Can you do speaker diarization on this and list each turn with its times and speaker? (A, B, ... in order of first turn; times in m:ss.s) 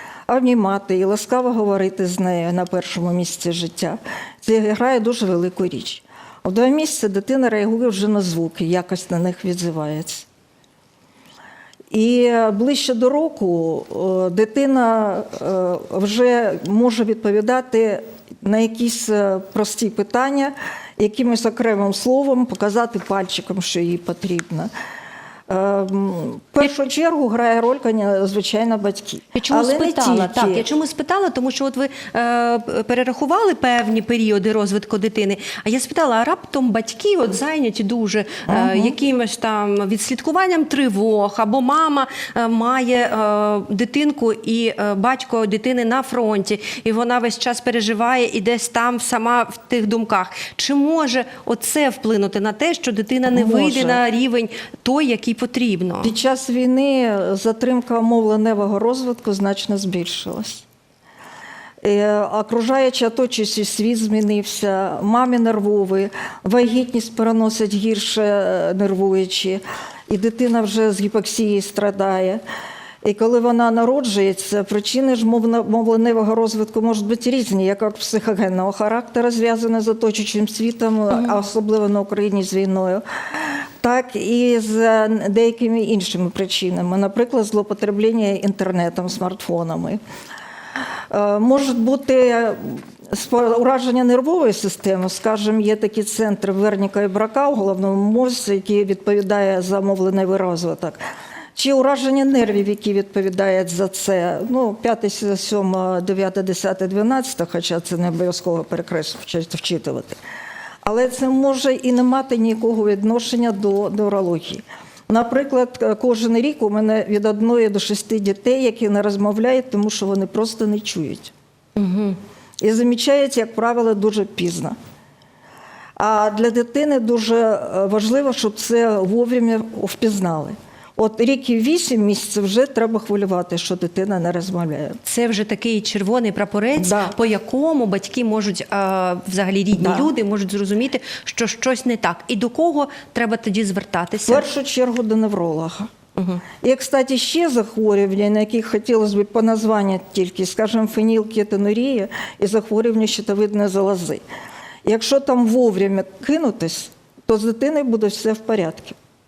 0:00.3-0:10.2 A
0:11.9-0:24.7 A
0:25.5-0:30.6 A
0:29.3-0:56.1 B
0:38.5-0:39.0 A
0:53.3-0:54.0 A
0:56.0-1:00.6 A
1:01.8-1:12.4 A
1:13.0-1:30.0 A
1:31.1-1:41.0 A
1:41.6-1:50.2 A
1:50.8-2:01.3 A
2:01.8-2:02.2 B
2:02.6-2:04.8 A
2:06.0-2:15.0 A
2:15.0-2:24.4 B
2:16.8-2:17.1 A
2:19.8-2:20.1 A
2:24.2-2:25.9 A
2:26.2-2:26.4 B
2:26.6-2:34.2 A
2:34.8-2:39.0 A